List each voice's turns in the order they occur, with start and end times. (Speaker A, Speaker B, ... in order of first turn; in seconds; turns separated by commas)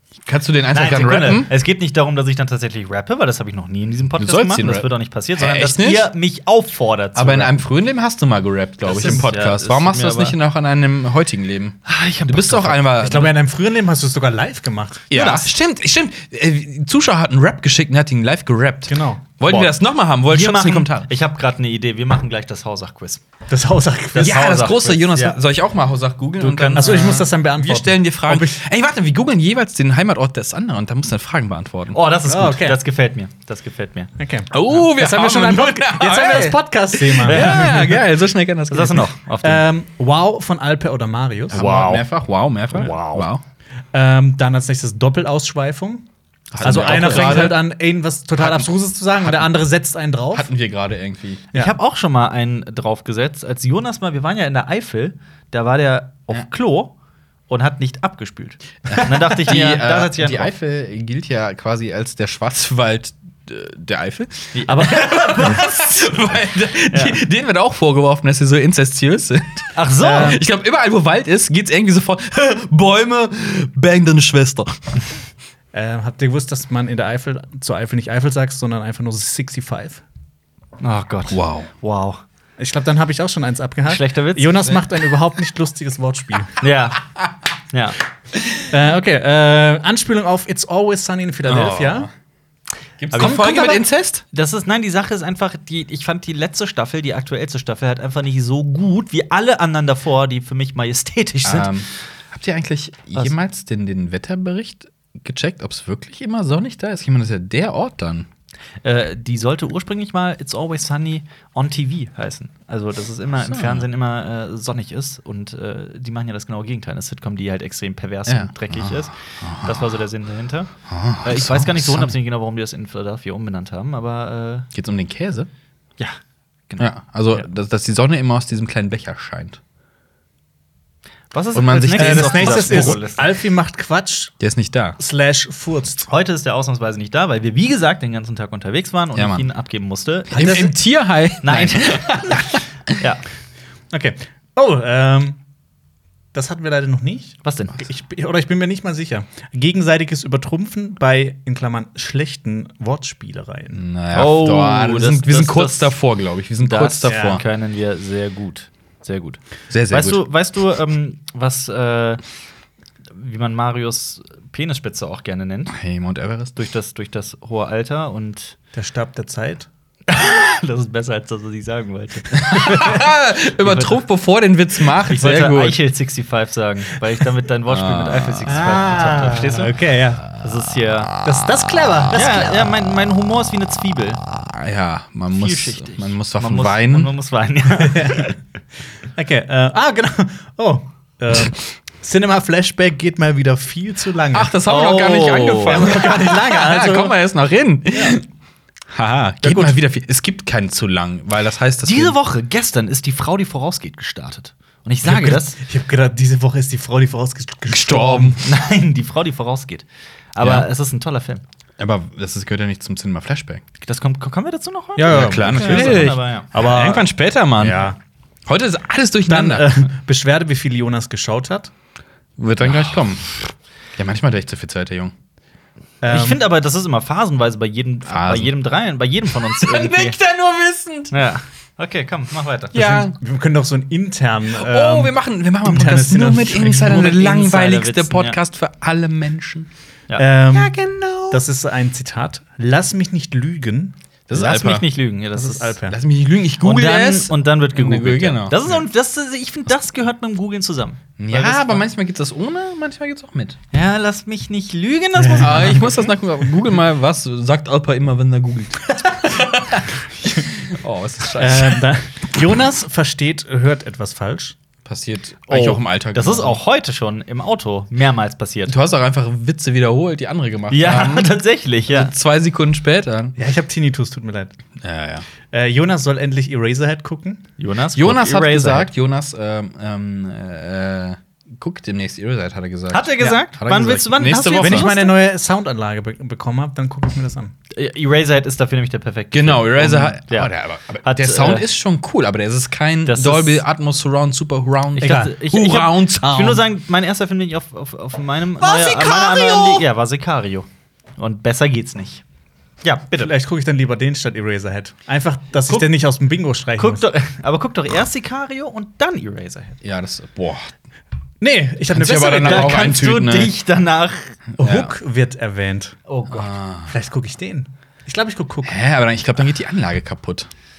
Speaker A: 0.2-1.5, Speaker B: 0.7-7.6, Speaker A: 4.2-6.1, Speaker A: 7.1-13.3, Speaker B: 8.8-10.3, Speaker B: 11.8-12.8, Speaker C: 13.0-15.4, Speaker A: 15.1-21.1, Speaker C: 18.9-19.2, Speaker B: 19.4-19.7, Speaker B: 20.3-23.2, Speaker C: 23.5-24.5, Speaker A: 24.1-32.0, Speaker B: 24.2-25.4, Speaker B: 26.4-27.2, Speaker C: 26.7-28.6, Speaker B: 31.9-34.1, Speaker C: 32.3-32.8, Speaker C: 34.2-38.0, Speaker A: 34.5-39.1, Speaker B: 37.2-38.0, Speaker B: 38.7-39.6, Speaker C: 39.4-41.6, Speaker B: 41.5-42.0, Speaker A: 41.5-43.4, Speaker B: 42.7-43.3, Speaker C: 43.9-46.0, Speaker A: 46.5-47.6, Speaker C: 46.6-50.5, Speaker B: 46.6-47.5, Speaker A: 48.4-48.7, Speaker A: 49.2-49.5, Speaker A: 50.3-51.4, Speaker B: 51.5-56.9, Speaker B: 57.5-60.5, Speaker A: 58.9-75.0, Speaker B: 64.5-66.0, Speaker C: 64.7-65.6, Speaker B: 66.9-67.2, Speaker B: 69.7-70.4, Speaker C: 70.0-70.4, Speaker C: 75.7-80.0, Speaker B: 80.8-82.2, Speaker A: 81.3-81.7, Speaker C: 82.6-86.6, Speaker B: 83.8-84.8, Speaker B: 86.6-87.0, Speaker B: 87.7-88.0, Speaker A: 88.3-88.6, Speaker C: 88.7-92.1, Speaker A: 91.4-92.1, Speaker A: 93.0-94.2, Speaker B: 93.1-101.7, Speaker C: 93.2-93.8, Speaker A: 101.4-108.3, Speaker B: 108.8-124.7, Speaker A: 113.4-113.8, Speaker A: 118.3-120.0, Speaker A: 120.9-122.1, Speaker A: 124.7-125.5, Speaker B: 126.7-127.4, Speaker A: 126.8-129.6, Speaker B: 131.3-133.3, Speaker A: 131.5-133.0, Speaker C: 131.9-134.3, Speaker A: 134.4-135.0, Speaker C: 135.0-136.1, Speaker B: 136.1-140.7, Speaker A: 139.1-139.4, Speaker A: 140.3-142.6, Speaker C: 140.4-140.7, Speaker B: 141.4-143.2, Speaker C: 143.9-145.4, Speaker C: 146.3-153.8, Speaker B: 147.4-147.8, Speaker A: 153.7-157.4, Speaker B: 154.1-155.9, Speaker B: 156.6-162.2, Speaker C: 157.1-157.4, Speaker A: 159.7-160.2, Speaker B: 163.1-165.8, Speaker A: 165.7-166.5, Speaker B: 166.5-168.6, Speaker C: 168.7-169.7, Speaker B: 170.1-174.0, Speaker A: 172.4-175.8, Speaker B: 175.0-179.7, Speaker A: 177.7-178.6, Speaker C: 178.5-180.2, Speaker B: 180.4-181.1, Speaker C: 181.2-182.7, Speaker B: 182.1-184.2, Speaker A: 184.3-187.1, Speaker B: 185.3-188.3, Speaker C: 187.7-188.3, Speaker C: 189.2-194.5, Speaker A: 194.3-198.2, Speaker B: 194.7-196.0, Speaker C: 195.7-197.1, Speaker A: 198.9-202.1, Speaker C: 199.4-199.8, Speaker B: 201.8-205.6, Speaker C: 205.0-208.4, Speaker A: 207.7-208.4, Speaker B: 208.4-211.4, Speaker A: 210.4-210.7, Speaker A: 211.8-213.6, Speaker B: 213.8-216.5, Speaker C: 215.0-218.0, Speaker A: 215.1-217.9, Speaker A: 218.5-219.8, Speaker C: 219.3-221.7, Speaker A: 222.4-225.1, Speaker C: 226.0-226.4, Speaker B: 226.1-230.2, Speaker A: 228.1-228.5, Speaker A: 229.4-231.1, Speaker B: 231.1-233.1, Speaker A: 232.7-233.2, Speaker C: 233.1-237.1, Speaker A: 234.5-239.7, Speaker B: 236.8-238.4, Speaker C: 240.2-240.8, Speaker A: 240.5-241.4, Speaker C: 241.3-243.9, Speaker A: 244.3-244.9, Speaker B: 244.3-245.8, Speaker C: 245.3-246.0, Speaker A: 245.9-248.8, Speaker B: 246.6-251.8, Speaker A: 251.2-253.6, Speaker B: 253.7-256.0, Speaker C: 255.2-255.9, Speaker A: 255.3-261.9, Speaker C: 261.3-264.5, Speaker A: 264.8-266.6, Speaker B: 265.5-268.8, Speaker A: 268.7-271.4, Speaker B: 270.7-272.1, Speaker A: 271.9-273.3, Speaker C: 273.4-274.5, Speaker A: 274.8-275.3, Speaker C: 275.5-277.4, Speaker B: 277.6-278.9, Speaker A: 277.9-284.9, Speaker B: 282.9-285.1, Speaker C: 284.3-287.5, Speaker B: 287.7-291.7, Speaker A: 289.3-296.4, Speaker B: 293.1-293.6, Speaker B: 295.0-302.2, Speaker C: 295.0-295.3, Speaker C: 296.2-296.6, Speaker A: 298.6-299.9, Speaker B: 302.8-303.3, Speaker C: 303.2-307.0, Speaker B: 306.8-309.8, Speaker A: 309.8-310.7, Speaker C: 311.4-312.9, Speaker A: 311.9-313.5, Speaker B: 312.3-314.4, Speaker C: 314.6-316.0, Speaker A: 314.6-314.9, Speaker B: 316.1-316.5, Speaker A: 316.3-316.9, Speaker C: 316.9-318.8, Speaker A: 318.6-320.5